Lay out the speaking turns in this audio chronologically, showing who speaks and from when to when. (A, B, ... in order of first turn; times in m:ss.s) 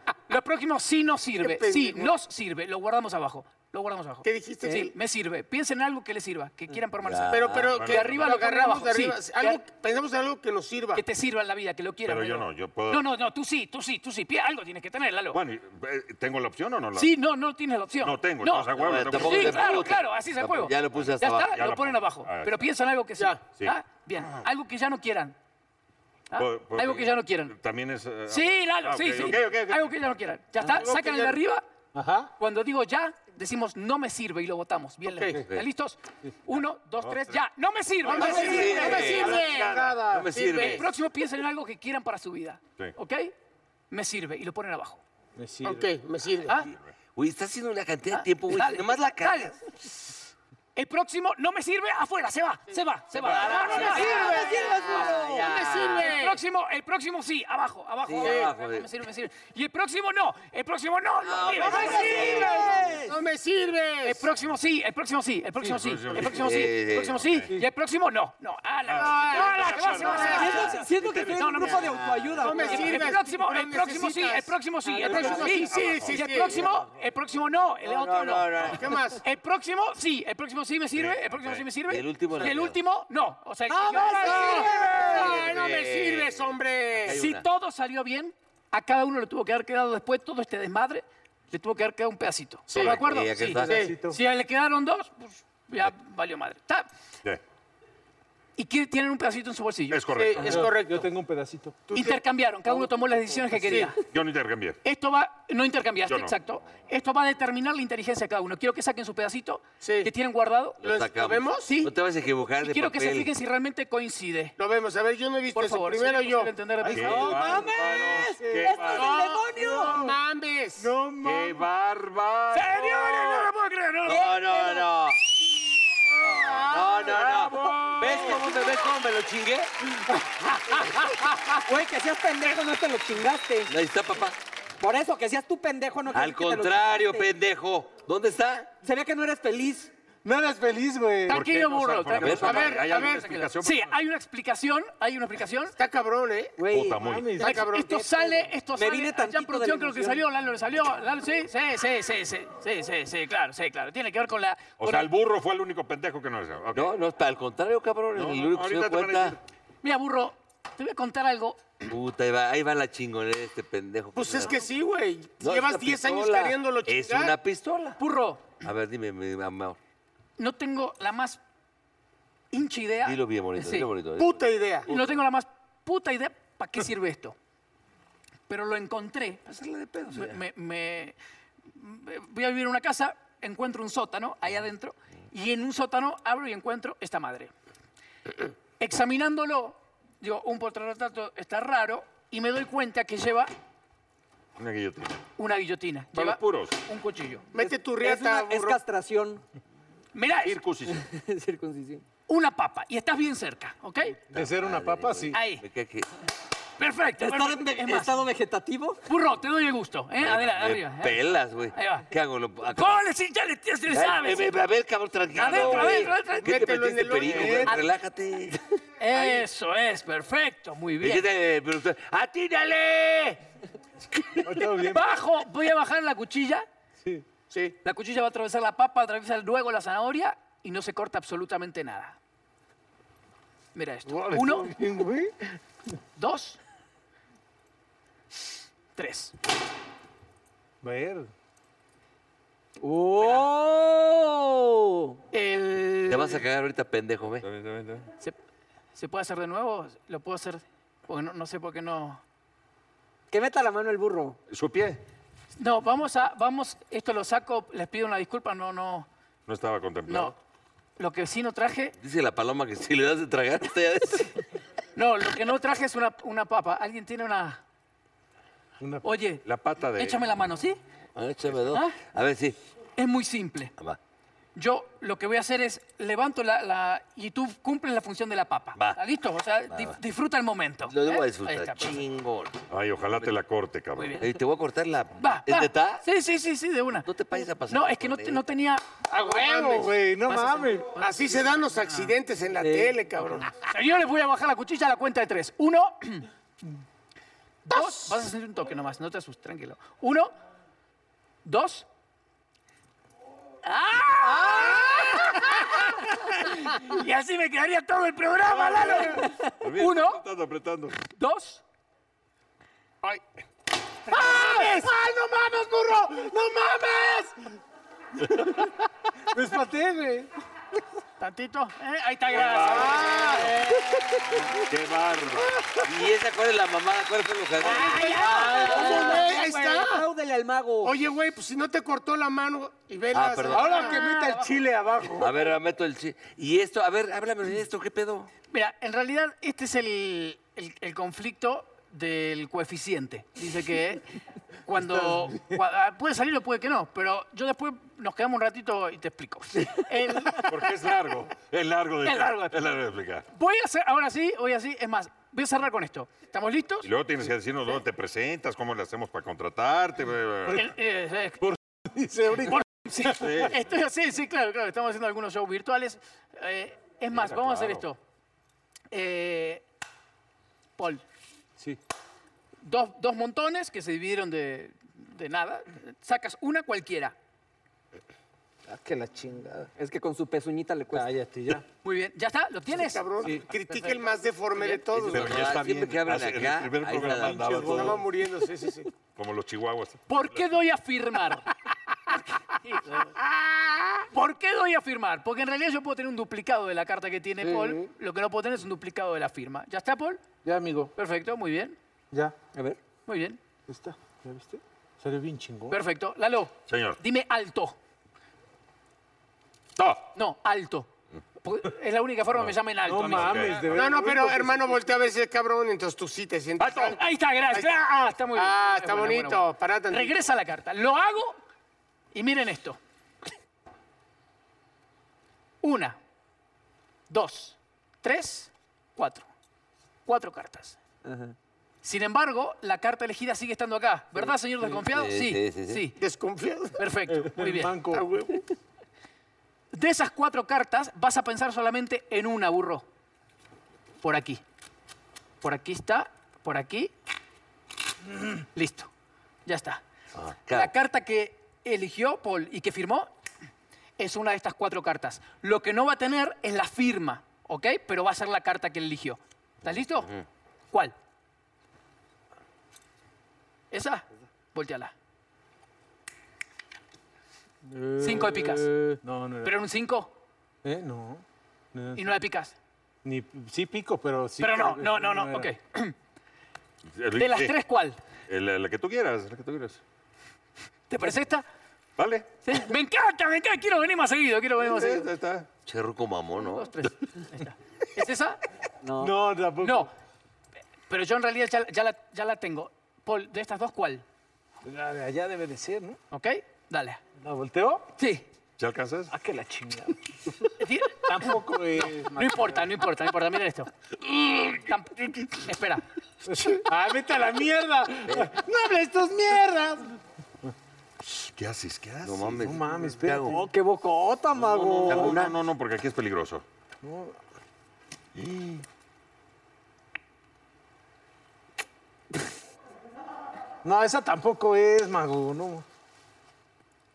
0:00.3-0:09.6 A
0:01.4-0:02.2 B
0:04.2-0:04.9 B
0:07.0-0:07.9 C
0:07.3-0:11.0 B
0:07.8-0:08.4 D
0:11.0-0:15.4 A
0:12.0-0:13.0 D
0:15.3-0:17.1 D
0:17.0-0:25.4 A
0:18.0-0:19.9 D
0:18.8-0:21.6 C
0:21.0-0:22.6 D
0:26.3-0:27.6 A
0:26.4-0:30.0 D
0:28.3-0:31.6 A
0:30.6-0:31.4 B
0:31.9-0:32.3 E
0:32.4-0:39.3 A
0:35.1-0:35.4 B
0:37.0-0:37.4 D
0:38.0-0:40.8 B
0:38.0-0:40.4 E
0:38.1-0:40.9 C
0:40.6-0:43.3 A
0:43.9-0:45.0 A
0:45.4-0:45.9 E
0:45.6-0:46.6 B
0:47.2-0:49.6 C
0:48.1-0:49.6 A
0:50.8-0:55.1 A
0:53.1-0:56.2 C
0:53.6-0:56.4 B
0:53.7-0:55.5 F
0:56.0-1:02.7 A
0:58.0-0:58.9 C
0:58.2-0:58.5 B
1:01.2-1:03.0 C
1:01.5-1:04.3 B
1:01.8-1:03.2 F
1:04.0-1:12.0 A
1:05.7-1:06.6 D
1:06.2-1:07.2 C
1:07.2-1:07.5 D
1:08.9-1:11.7 D
1:09.0-1:10.8 B
1:10.2-1:13.1 F
1:11.8-1:12.4 C
1:12.4-1:16.7 B
1:12.6-1:24.8 A
1:15.0-1:15.6 E
1:15.8-1:16.2 D
1:17.8-1:18.9 C
1:18.7-1:19.2 B
1:21.0-1:21.6 D
1:21.9-1:22.8 C
1:23.7-1:25.0 F
1:23.9-1:27.5 C
1:23.9-1:27.2 B
1:27.0-1:36.9 A
1:32.7-1:33.0 B
1:32.8-1:33.8 C
1:33.6-1:34.2 E
1:33.7-1:33.9 B
1:38.6-1:40.0 A
1:39.9-1:40.7 D
1:40.1-1:41.1 B
1:40.4-1:41.8 E
1:41.9-1:42.2 B
1:41.9-1:44.0 A
1:43.5-1:44.0 B
1:44.0-1:44.8 D
1:44.8-1:50.8 A
1:46.1-1:46.3 D
1:49.8-1:50.1 B
1:50.8-1:53.3 C
1:50.8-1:51.7 B
1:51.7-1:51.9 A
1:52.6-1:54.6 A
1:54.6-1:56.5 B
1:55.5-1:57.6 A
1:56.8-1:58.9 E
1:56.9-1:59.2 D
1:57.3-2:00.1 F
1:58.9-2:00.9 B
1:59.6-2:00.2 E
2:00.8-2:01.7 E
2:01.2-2:03.5 D
2:02.5-2:04.9 A
2:04.0-2:05.2 C
2:06.2-2:09.7 C
2:06.6-2:07.0 B
2:07.1-2:08.4 D
2:08.0-2:08.8 A
2:11.6-2:13.7 F
2:13.7-2:14.4 C
2:14.8-2:17.3 F
2:16.1-2:18.7 C
2:18.8-2:19.9 F
2:20.2-2:21.4 E
2:21.3-2:23.9 D
2:21.3-2:25.8 A
2:22.2-2:22.6 C
2:22.4-2:23.4 B
2:25.8-2:26.6 B
2:26.6-2:27.1 F
2:26.7-2:27.4 D
2:27.0-2:27.7 E
2:27.4-2:28.0 B
2:27.4-2:35.1 A
2:28.7-2:30.2 F
2:34.8-2:36.9 D
2:36.7-2:39.4 C
2:38.2-2:39.4 D
2:39.8-2:41.7 A
2:41.9-2:44.6 C
2:44.2-2:47.4 B
2:45.4-2:48.0 C
2:48.0-2:48.6 A
2:48.6-2:49.8 C
2:50.4-2:51.4 A
2:52.5-2:53.9 A
2:53.0-2:55.1 C
2:54.2-2:54.9 B
2:54.9-2:57.4 A
2:58.5-2:59.5 A
2:59.5-3:00.4 C
3:00.1-3:01.2 A
3:01.7-3:07.5 A
3:08.8-3:13.5 A
3:14.6-3:15.2 D
3:15.4-3:17.5 A
3:16.2-3:16.8 D
3:17.5-3:18.8 B
3:18.0-3:19.4 F
3:20.1-3:20.6 A
3:20.4-3:21.0 D
3:20.9-3:22.0 F
3:22.3-3:24.2 A
3:24.3-3:25.4 E
3:24.3-3:26.1 C
3:25.3-3:25.6 A
3:26.8-3:28.1 A
3:27.2-3:29.0 F
3:29.1-3:32.1 A
3:30.2-3:33.0 C
3:32.7-3:34.5 A
3:33.9-3:38.6 C
3:35.4-3:36.7 A
3:35.6-3:37.7 B
3:37.3-3:37.8 E
3:39.0-3:41.3 A
3:39.2-3:39.4 B
3:41.0-3:43.4 C
3:44.4-3:45.1 E
3:44.8-3:46.7 A
3:47.8-3:52.2 A
3:53.8-3:54.7 A
3:54.1-3:55.5 E
3:56.2-3:56.6 A
3:59.0-3:59.3 A
4:00.8-4:01.3 E
4:02.8-4:05.2 F
4:03.2-4:03.5 A
4:05.3-4:06.4 A
4:06.1-4:07.5 C
4:07.4-4:08.1 D
4:09.0-4:12.2 A
4:13.3-4:14.4 F
4:14.5-4:15.0 D
4:15.6-4:19.1 A
4:19.5-4:20.4 D
4:20.1-4:20.4 A
4:21.0-4:22.0 A
4:22.0-4:24.3 C
4:25.0-4:27.6 A
4:28.8-4:29.1 E
4:29.0-4:29.4 A
4:29.4-4:30.2 D
4:30.0-4:30.8 A
4:31.2-4:32.6 C
4:31.7-4:32.0 A
4:33.0-4:33.7 A
4:34.6-4:42.0 A
4:39.7-4:40.0 C
4:40.9-4:43.3 C
4:42.7-4:44.2 D
4:44.0-4:44.3 A
4:44.2-4:46.0 C
4:45.2-4:48.8 A
4:47.0-4:48.4 C
4:49.1-4:50.0 B
4:49.1-4:50.9 E
4:50.3-4:51.0 A
4:51.0-4:53.5 B
4:51.9-4:52.1 A
4:52.6-4:52.9 F
4:53.6-4:56.3 A
4:57.7-5:00.3 A
4:57.7-4:58.2 B
5:01.4-5:01.9 A
5:03.6-5:10.2 A
5:04.4-5:05.3 B
5:08.5-5:11.0 D
5:11.0-5:11.6 A
5:14.1-5:17.4 B
5:14.1-5:14.9 A
5:19.3-5:20.3 E
5:21.2-5:24.3 A
5:22.3-5:23.4 D
5:22.3-5:23.6 B
5:23.7-5:24.4 F
5:24.7-5:25.7 D
5:25.8-5:28.7 C
5:27.6-5:29.3 A
5:27.6-5:30.1 B
5:28.1-5:30.9 F
5:28.3-5:29.1 E
5:30.8-5:34.0 B
5:33.1-5:33.9 C
5:33.5-5:35.4 E
5:33.5-5:34.6 A
5:35.2-5:38.3 C
5:38.5-5:44.0 A
5:44.6-5:50.6 A
5:50.5-5:53.2 D
5:52.0-5:52.6 A
5:53.3-5:56.9 A
5:56.8-6:00.7 D
6:00.5-6:01.5 A
6:01.4-6:03.5 E
6:02.5-6:08.0 A
6:03.2-6:03.5 D
6:07.1-6:07.8 D
6:08.9-6:09.6 A
6:10.8-6:11.0 A
6:12.6-6:17.2 A
6:18.7-6:19.7 E
6:19.8-6:21.1 F
6:20.9-6:21.6 E
6:21.8-6:23.0 A
6:22.7-6:25.6 B
6:25.1-6:28.0 C
6:25.1-6:28.0 D
6:27.1-6:28.0 E
6:27.7-6:28.9 B
6:29.2-6:30.4 D
6:30.1-6:31.5 A
6:32.1-6:33.1 A
6:33.3-6:34.0 B
6:34.1-6:40.3 A
6:37.4-6:37.9 E
6:40.4-6:40.9 E
6:41.0-6:41.8 A
6:42.5-6:42.8 F
6:43.1-6:43.4 A
6:43.7-6:45.8 E
6:45.7-6:47.8 A
6:46.7-6:47.0 D
6:49.8-6:50.1 D
6:50.2-6:50.9 A
6:51.4-6:53.7 A
6:52.8-6:54.8 E
6:53.1-6:54.0 D
6:53.7-6:57.0 B
6:56.6-6:57.0 D
6:56.9-7:01.4 A
6:58.4-7:00.1 B
7:02.1-7:02.8 A
7:05.6-7:06.0 A
7:07.1-7:09.3 A
7:10.1-7:10.8 A
7:11.0-7:11.4 F
7:11.8-7:16.0 A
7:14.9-7:15.8 C
7:16.0-7:16.8 B
7:16.8-7:17.8 A
7:17.1-7:18.1 E
7:17.9-7:18.5 B
7:19.7-7:22.8 A
7:24.0-7:24.4 A
7:25.4-7:26.9 A
7:28.6-7:28.9 A
7:29.5-7:29.8 A
7:30.2-7:30.7 C
7:30.5-7:33.1 A
7:34.0-7:40.1 A
7:39.7-7:40.2 C
7:43.7-7:44.9 A
7:47.6-7:49.6 E
7:48.0-7:50.1 A
7:50.6-7:51.2 E
7:51.7-7:52.1 E
7:52.0-7:52.6 A
7:53.0-7:55.5 E
7:54.4-7:55.9 A
7:57.0-7:57.5 D
7:57.2-7:58.0 A
7:58.3-7:59.8 D
8:00.9-8:01.4 A
8:02.0-8:02.3 D
8:02.4-8:05.1 A
8:04.6-8:05.5 D
8:05.7-8:06.7 C
8:06.4-8:08.4 A
8:08.8-8:09.1 F
8:08.9-8:09.9 E
8:09.6-8:09.9 A
8:10.9-8:14.0 A
8:14.6-8:16.0 E
8:16.1-8:17.0 A
8:17.2-8:17.9 E
8:18.0-8:18.3 A
8:18.6-8:19.1 D
8:19.1-8:20.5 E
8:20.6-8:25.8 A
8:21.0-8:22.6 E
8:26.3-8:30.0 E
8:31.1-8:32.4 D
8:32.0-8:33.4 C
8:32.4-8:33.5 E
8:33.2-8:35.1 F
8:34.4-8:35.4 C
8:34.6-8:35.2 E
8:34.9-8:36.4 D
8:36.8-8:37.2 E
8:38.2-8:38.6 D
8:43.6-8:45.6 E